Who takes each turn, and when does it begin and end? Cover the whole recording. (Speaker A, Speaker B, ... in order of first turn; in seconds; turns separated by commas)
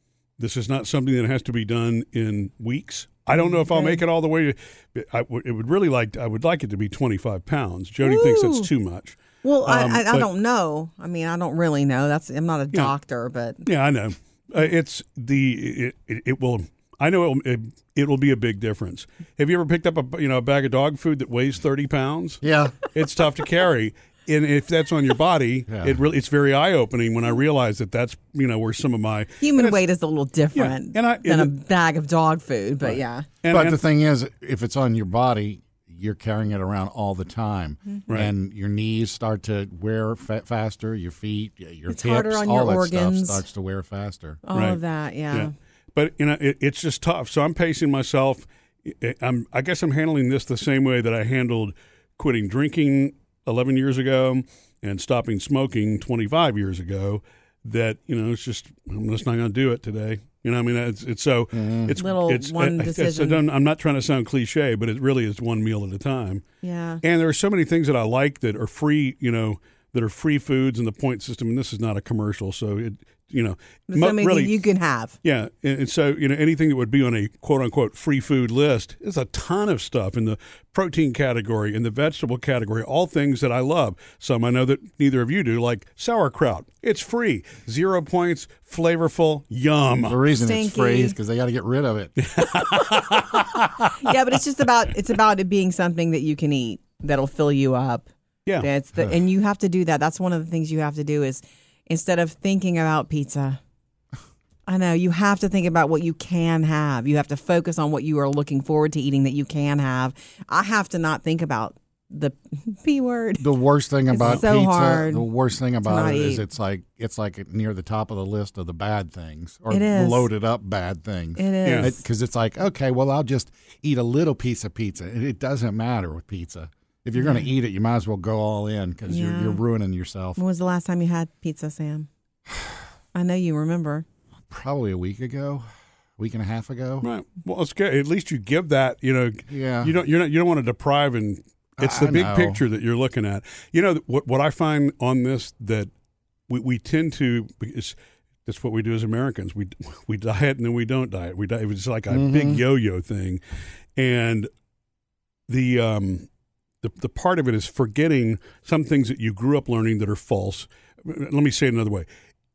Speaker A: 0.4-10.3, Speaker B: 3.3-4.0, Speaker B: 8.0-8.7, Speaker B: 9.4-13.7, Speaker A: 13.7-22.4, Speaker C: 22.4-22.8, Speaker A: 22.9-29.8, Speaker C: 25.7-25.9, Speaker B: 29.4-33.2, Speaker A: 30.5-31.5, Speaker A: 33.4-33.8, Speaker C: 33.5-44.4, Speaker B: 41.9-43.5, Speaker B: 44.4-45.5, Speaker A: 44.5-44.8, Speaker A: 45.3-66.4, Speaker C: 61.5-61.9, Speaker B: 62.0-63.4, Speaker B: 66.6-67.0, Speaker A: 67.0-74.5, Speaker B: 73.9-75.2, Speaker A: 75.2-90.2, Speaker C: 90.0-92.2, Speaker B: 90.3-91.2, Speaker A: 92.2-94.1, Speaker B: 92.5-98.1, Speaker B: 98.6-103.6, Speaker B: 104.7-113.5, Speaker C: 113.4-130.4, Speaker B: 114.1-115.3, Speaker A: 114.2-114.5, Speaker B: 115.8-116.4, Speaker B: 119.7-120.3, Speaker B: 121.4-122.0, Speaker A: 121.6-121.9, Speaker B: 129.1-129.6, Speaker B: 130.3-132.1, Speaker B: 133.1-134.0, Speaker C: 134.5-135.7, Speaker C: 136.2-137.1, Speaker A: 137.0-145.9, Speaker C: 139.5-139.9, Speaker C: 141.8-142.6, Speaker A: 146.5-153.4, Speaker C: 152.1-152.6, Speaker A: 153.9-154.5, Speaker A: 155.5-156.3, Speaker A: 156.8-162.1